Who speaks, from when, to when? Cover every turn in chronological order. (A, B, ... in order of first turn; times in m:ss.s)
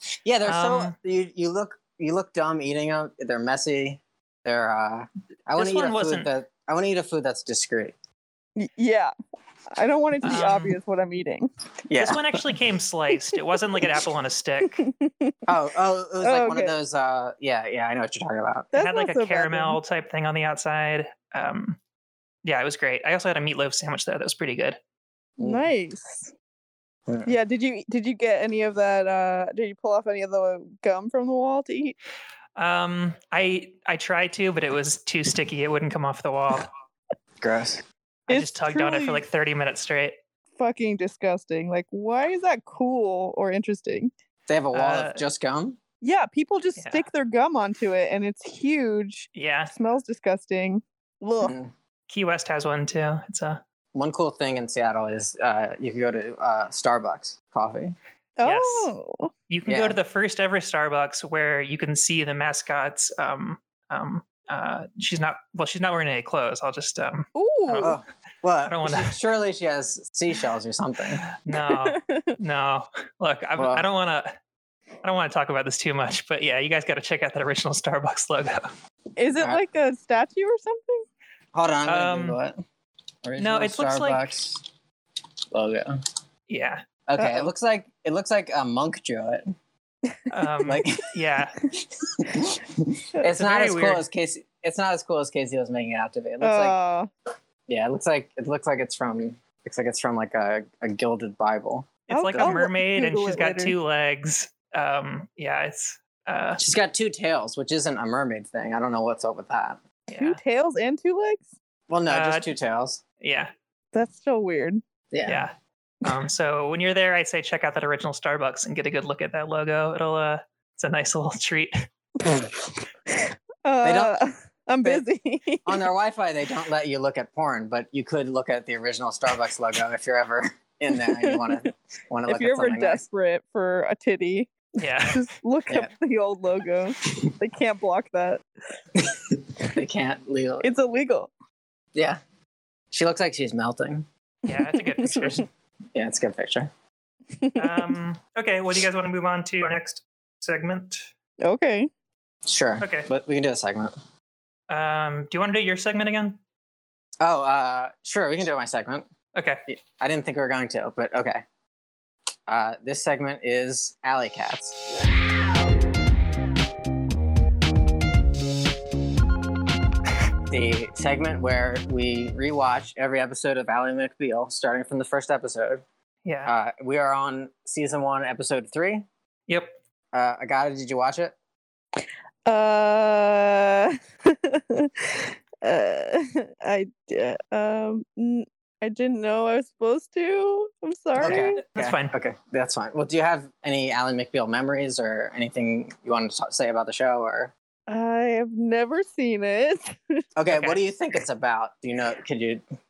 0:00.2-0:08.0 A
0:00.4-0:01.0 B
0:05.6-0:06.3 B
0:08.6-0:09.1 C
0:09.7-0:11.5 C
0:10.2-0:10.8 B
0:11.9-0:12.4 A
0:12.0-0:14.8 B
0:14.8-0:15.4 C
0:15.5-0:18.7 A
0:16.2-0:16.7 C
0:18.7-0:19.8 C
0:18.7-0:21.8 B
0:22.4-0:24.8 B
0:25.4-0:26.3 C
0:27.1-0:27.3 A
0:27.3-0:32.0 C
0:32.6-0:36.7 B
0:37.4-0:37.8 A
0:38.3-0:40.2 B
0:38.3-0:39.2 C
0:40.6-0:44.1 C
0:44.5-0:45.8 A
0:44.7-0:45.2 B
0:46.0-0:51.5 C
0:46.8-0:47.1 B
0:49.4-0:49.7 B
0:51.4-0:51.7 A
0:52.1-0:53.6 B
0:53.9-0:58.0 A
0:58.4-0:59.3 C
0:58.4-0:58.9 B
0:59.5-1:07.9 B
0:59.7-1:00.0 A
1:07.4-1:08.0 C
1:07.8-1:11.2 A
1:08.6-1:09.2 B
1:11.4-1:14.3 B
1:11.5-1:12.4 C
1:13.6-1:13.8 A
1:15.0-1:18.7 B
1:19.2-1:21.1 C
1:21.5-1:22.6 A
1:21.9-1:22.4 B
1:23.2-1:24.7 A
1:23.4-1:24.3 B
1:25.5-1:26.0 A
1:26.5-1:26.8 B
1:27.1-1:29.5 A
1:27.2-1:27.5 C
1:30.3-1:31.6 B
1:30.7-1:31.1 A
1:32.2-1:36.8 A
1:33.3-1:34.0 B
1:36.4-1:37.1 C
1:37.7-1:42.6 A
1:42.1-1:46.6 B
1:42.1-1:43.7 C
1:46.6-1:49.8 A
1:50.1-1:50.4 B
1:50.2-1:51.5 C
1:51.9-1:53.0 A
1:52.1-1:52.5 B
1:53.2-1:53.5 B
1:53.9-1:54.8 C
1:55.1-1:55.5 A
1:55.2-2:01.8 B
2:03.1-2:05.9 C
2:03.8-2:04.2 A
2:05.7-2:13.0 A
2:10.9-2:11.7 C
2:12.3-2:18.4 C
2:14.8-2:15.2 B
2:17.0-2:17.3 A
2:19.0-2:20.7 A
2:20.6-2:21.3 C
2:22.0-2:22.2 A
2:22.9-2:24.1 A
2:24.5-2:25.4 B
2:24.5-2:25.4 C
2:25.9-2:26.7 A
2:27.3-2:28.0 C
2:27.6-2:31.1 B
2:31.4-2:31.9 C
2:32.4-2:33.9 A
2:32.8-2:33.1 B
2:34.7-2:36.4 B
2:37.2-2:39.1 A
2:39.4-2:39.6 B
2:39.7-2:41.4 A
2:42.5-2:44.8 A
2:50.5-2:55.8 A
2:56.2-2:56.5 B
2:56.5-2:59.1 A
2:59.5-2:59.8 B
3:00.1-3:01.4 A
3:02.5-3:11.6 C
3:11.2-3:17.5 A
3:11.2-3:12.1 B
3:17.9-3:20.2 C
3:20.4-3:22.6 A
3:20.5-3:20.8 B